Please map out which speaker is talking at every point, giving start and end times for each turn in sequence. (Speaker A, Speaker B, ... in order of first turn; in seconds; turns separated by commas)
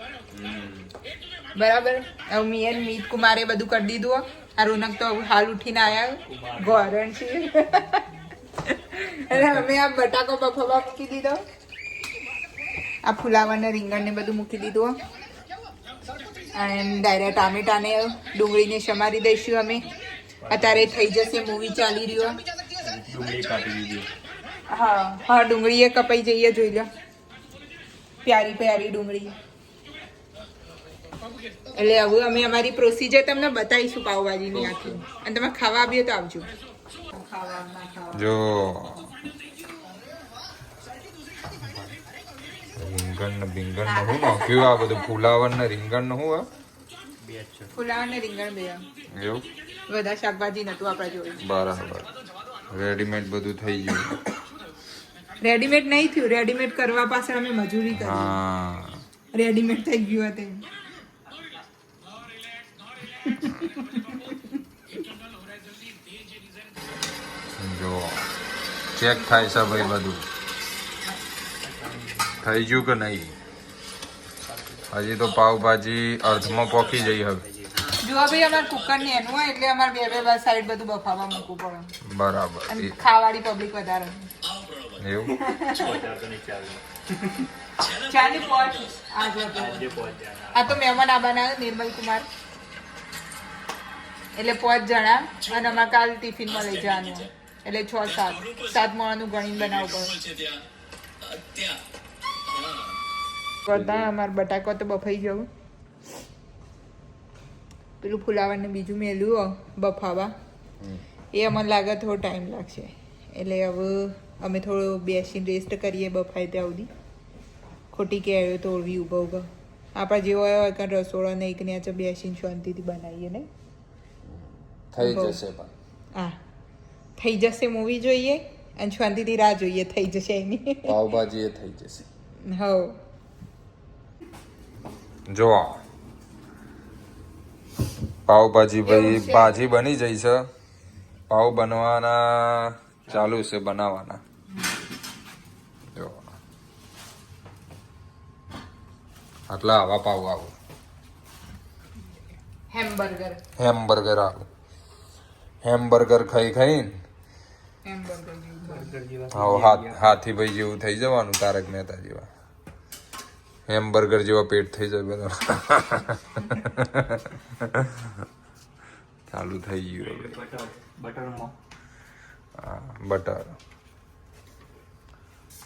Speaker A: 0.3-0.9, Speaker B: 1.6-8.0, Speaker C: 6.2-6.9, Speaker B: 8.7-11.4, Speaker B: 13.1-15.0, Speaker B: 16.5-19.9, Speaker C: 20.4-21.0, Speaker B: 20.5-22.4, Speaker C: 22.8-24.1, Speaker B: 24.7-26.9, Speaker B: 28.2-29.4, Speaker B: 31.7-36.5, Speaker A: 34.5-35.0, Speaker B: 37.1-38.4, Speaker A: 38.1-39.1, Speaker A: 42.8-46.5, Speaker B: 43.9-44.9, Speaker C: 47.2-47.7, Speaker B: 47.8-48.8, Speaker A: 49.1-49.5, Speaker B: 49.9-51.4, Speaker A: 51.4-52.1, Speaker A: 52.7-54.2, Speaker B: 55.4-58.4, Speaker A: 57.9-59.0, Speaker B: 59.3-60.6, Speaker B: 63.2-64.4, Speaker A: 67.6-68.3, Speaker A: 69.0-70.2, Speaker B: 69.1-70.0, Speaker C: 71.6-72.9, Speaker A: 72.4-73.3, Speaker C: 74.5-74.9, Speaker A: 74.9-77.4, Speaker C: 76.5-77.7, Speaker B: 78.0-81.9, Speaker A: 82.1-83.0, Speaker B: 82.7-84.3, Speaker A: 85.0-85.4, Speaker B: 85.3-86.0, Speaker C: 85.7-87.5, Speaker B: 87.9-89.9, Speaker C: 89.5-90.8, Speaker B: 90.5-92.3, Speaker B: 94.4-100.2, Speaker B: 103.7-105.5, Speaker A: 103.7-104.1, Speaker B: 108.0-110.3, Speaker B: 111.3-116.9, Speaker B: 117.9-123.5, Speaker A: 124.3-125.7, Speaker B: 125.0-125.4, Speaker B: 127.2-130.9, Speaker A: 130.8-132.1, Speaker B: 132.5-133.0, Speaker A: 135.3-135.8, Speaker A: 138.3-140.5, Speaker B: 138.8-139.6, Speaker A: 141.3-144.2, Speaker C: 143.1-143.4, Speaker A: 145.9-146.2, Speaker A: 149.5-150.5, Speaker B: 152.7-153.4, Speaker A: 153.6-154.5, Speaker A: 155.6-156.9, Speaker B: 157.8-158.9, Speaker C: 158.7-160.2, Speaker A: 159.3-162.3, Speaker A: 163.7-168.2, Speaker A: 169.3-170.4, Speaker C: 170.0-171.5, Speaker A: 172.6-173.5